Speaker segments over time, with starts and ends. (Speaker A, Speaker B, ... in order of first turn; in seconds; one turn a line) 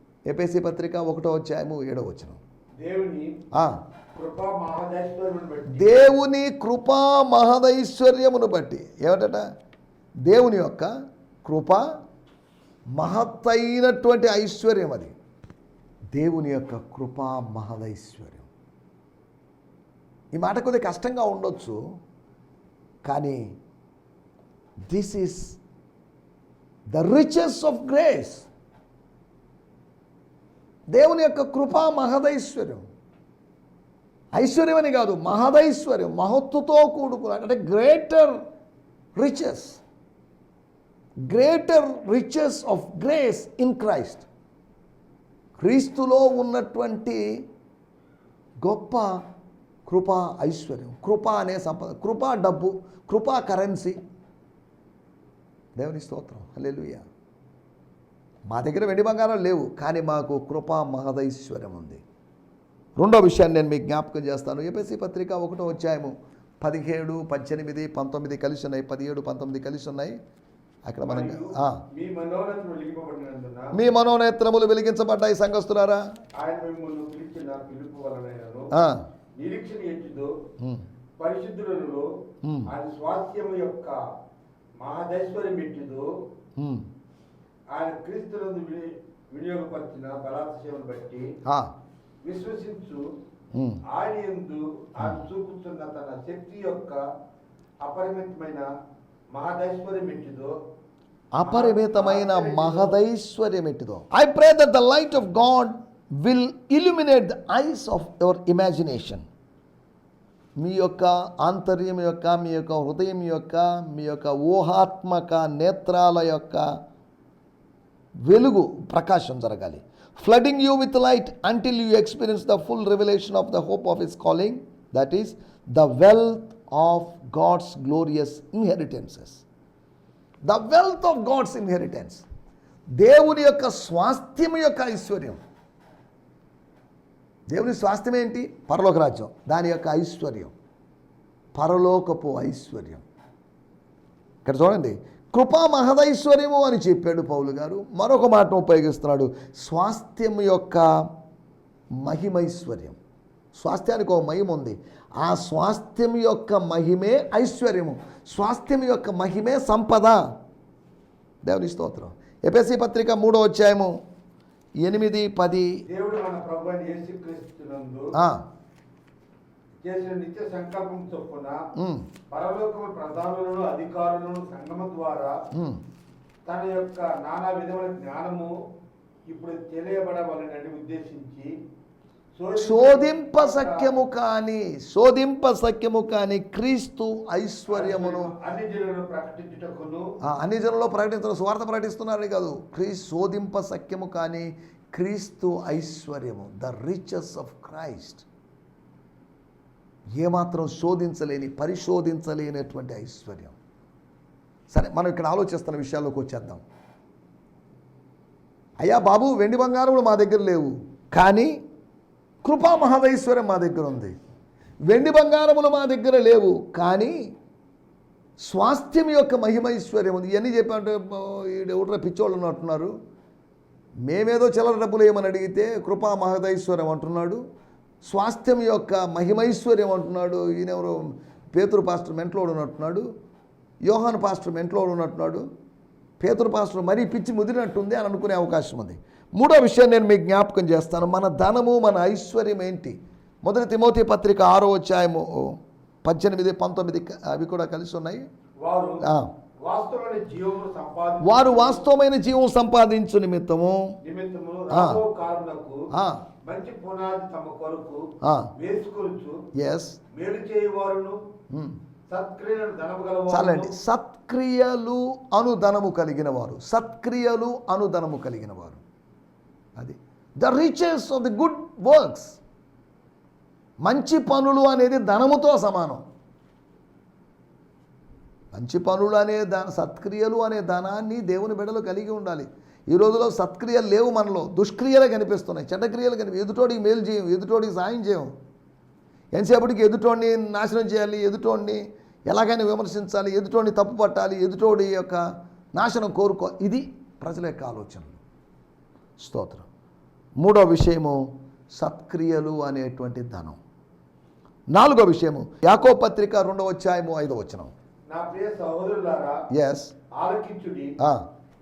Speaker A: 0.3-2.4
Speaker B: 2.8-3.4
Speaker B: 4.2-6.1
Speaker A: 5.7-9.5
Speaker A: 10.3-10.9
Speaker A: 11.4-11.8
Speaker A: 13.0-15.1
Speaker A: 16.1-18.5
Speaker A: 20.3-21.8
Speaker A: 23.1-23.4
Speaker A: 24.9-25.6
Speaker A: 26.9-28.5
Speaker A: 30.9-32.9
Speaker A: 34.4-38.4
Speaker A: 39.2-39.8
Speaker A: 41.3-44.3
Speaker A: 45.6-47.4
Speaker A: 48.6-49.2
Speaker A: 49.9-54.0
Speaker A: 55.8-57.0
Speaker A: 58.5-62.0
Speaker A: 63.0-70.2
Speaker A: 70.9-71.8
Speaker B: 71.0-73.8
Speaker A: 73.7-76.0
Speaker B: 76.4-78.7
Speaker A: 78.7-79.0
Speaker B: 79.4-80.3
Speaker B: 81.2-82.1
Speaker A: 82.4-82.7
Speaker B: 82.7-84.0
Speaker B: 84.8-86.1
Speaker A: 86.6-86.9
Speaker B: 87.7-91.3
Speaker A: 91.5-91.7
Speaker B: 92.2-93.1
Speaker A: 93.5-93.8
Speaker B: 93.8-97.0
Speaker B: 97.8-98.7
Speaker B: 99.3-100.6
Speaker A: 101.3-109.2
Speaker B: 101.4-103.0
Speaker A: 110.6-116.7
Speaker A: 118.2-129.4
Speaker A: 130.5-132.2
Speaker A: 133.0-135.4
Speaker A: 137.5-140.5
Speaker A: 141.6-143.0
Speaker A: 144.4-150.9
Speaker A: 152.0-153.0
Speaker A: 153.6-160.3
Speaker A: 161.4-163.9
Speaker A: 164.8-165.8
Speaker B: 165.9-168.1
Speaker A: 168.2-168.4
Speaker B: 169.8-171.7
Speaker A: 171.8-172.1
Speaker B: 172.3-175.4
Speaker A: 175.5-175.8
Speaker B: 176.5-178.5
Speaker B: 179.3-181.6
Speaker B: 182.4-184.0
Speaker A: 182.6-188.3
Speaker B: 187.7-190.1
Speaker A: 190.2-198.3
Speaker A: 200.2-203.6
Speaker A: 204.7-206.6
Speaker A: 208.8-211.6
Speaker A: 212.4-214.1
Speaker A: 214.9-217.2
Speaker A: 218.4-222.9
Speaker A: 224.1-227.4
Speaker A: 228.1-233.1
Speaker A: 233.8-235.5
Speaker A: 236.2-248.3
Speaker B: 248.6-249.0
Speaker A: 249.0-249.3
Speaker B: 249.6-251.8
Speaker A: 251.2-254.0
Speaker B: 254.0-255.9
Speaker A: 254.7-255.0
Speaker A: 255.9-256.2
Speaker B: 256.5-259.4
Speaker A: 258.2-258.5
Speaker A: 259.6-260.0
Speaker B: 260.1-261.2
Speaker A: 261.5-261.8
Speaker B: 262.1-263.7
Speaker A: 263.3-268.8
Speaker A: 269.8-272.4
Speaker A: 273.8-276.0
Speaker A: 278.5-288.3
Speaker A: 289.3-295.2
Speaker A: 295.8-298.2
Speaker A: 299.2-299.7
Speaker A: 300.4-301.2
Speaker A: 301.7-303.6
Speaker A: 304.7-307.7
Speaker B: 308.1-309.4
Speaker A: 309.5-309.9
Speaker B: 310.1-311.0
Speaker A: 311.0-311.2